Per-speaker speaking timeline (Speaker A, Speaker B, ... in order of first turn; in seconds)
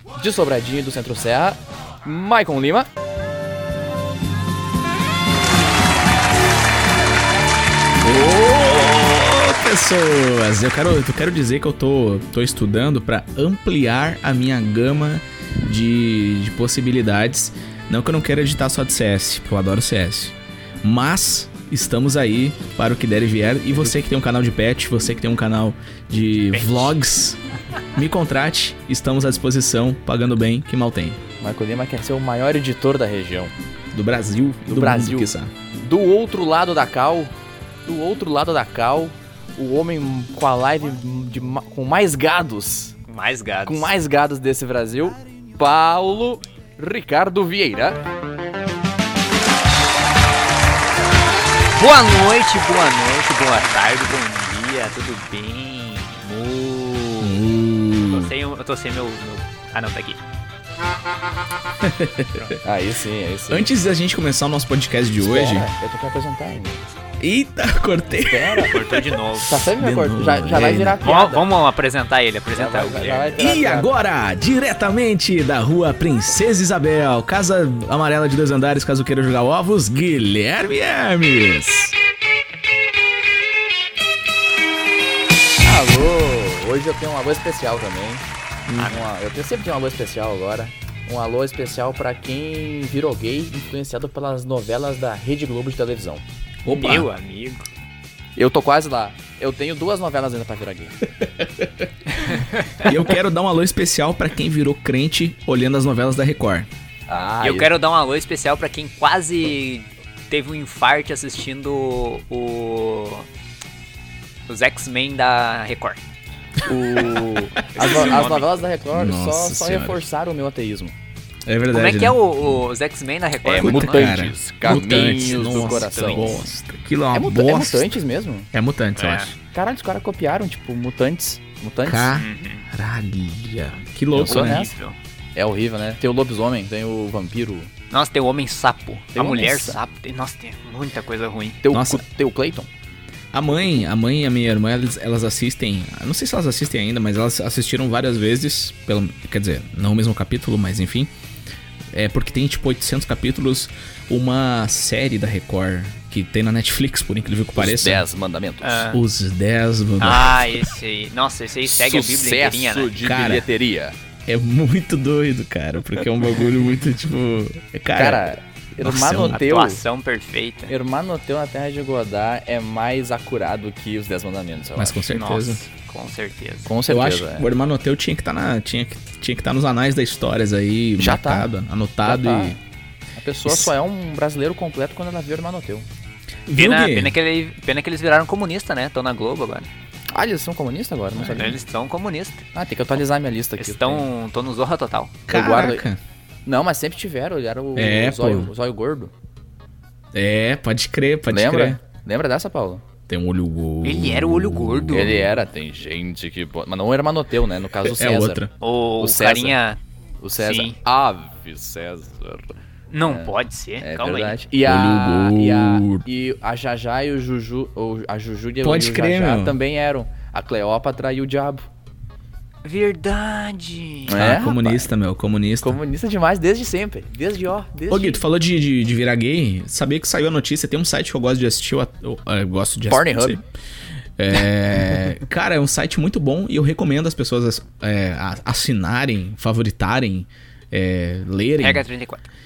Speaker A: 0.2-2.9, 31.4-33.5, 34.7-37.3, 37.9-43.0, 43.6-48.0, 62.6-63.7, 65.2-66.9, 68.2-68.8, 69.4-71.5, 72.5-73.9, 85.6-88.2, 88.8-96.2, 98.4-101.0, 107.1-107.7, 116.6-121.0, 123.4-126.4, 127.1-128.5, 129.5-132.1, 134.1-134.7, 135.3-137.7, 139.1-139.8, 141.6-142.7, 157.6-158.9, 161.6-164.0, 167.9-169.8, 170.7-175.0, 176.7-177.4, 181.0-181.5, 182.0-182.6, 183.2-185.9, 190.1-191.6, 192.5-194.1, 195.3-195.8, 196.4-199.1, 201.3-202.8, 204.9-208.4, 209.0-209.6, 210.2-221.7, 224.1-224.9, 225.6-228.2, 232.9-233.4
Speaker B: 8.0-27.4, 27.9-31.2, 33.9-35.5, 57.2-58.3, 61.8-62.5, 63.5-65.7, 67.2-71.0, 73.4-82.0, 88.7-88.9, 96.7-97.1, 101.4-101.7, 102.8-106.7, 118.9-120.0, 121.5-122.3, 123.5-128.0, 128.5-129.3, 131.8-134.6, 141.7-142.0, 143.3-151.1, 151.9-158.0, 158.9-160.6, 163.0-163.5, 164.2-169.4, 174.8-175.6, 176.9-182.6, 183.4-183.7, 186.5-187.2, 191.2-191.5, 195.3-196.0, 197.8-198.5, 200.1-201.8, 203.1-205.1, 207.8-208.5, 214.6-216.0, 218.6-219.6, 224.1-225.8, 227.9-233.4, 234.2-241.9
Speaker C: 26.5-26.9, 43.1-43.9, 51.8-57.4, 58.0-60.2, 68.7-69.7, 71.0-73.3, 96.7-97.7, 102.2-102.9, 107.4-113.3, 114.5-116.0, 117.6-118.5, 121.7-126.4, 129.0-129.3, 132.1-132.7, 134.2-135.0, 137.9-141.6, 158.6-159.0, 160.0-162.9, 169.3-170.7, 175.1-176.7, 186.5-189.7, 191.3-192.4, 193.6-195.2, 203.8-205.3, 208.6-209.8, 210.3-210.8, 212.9-214.4, 222.6-224.4, 241.6-242.3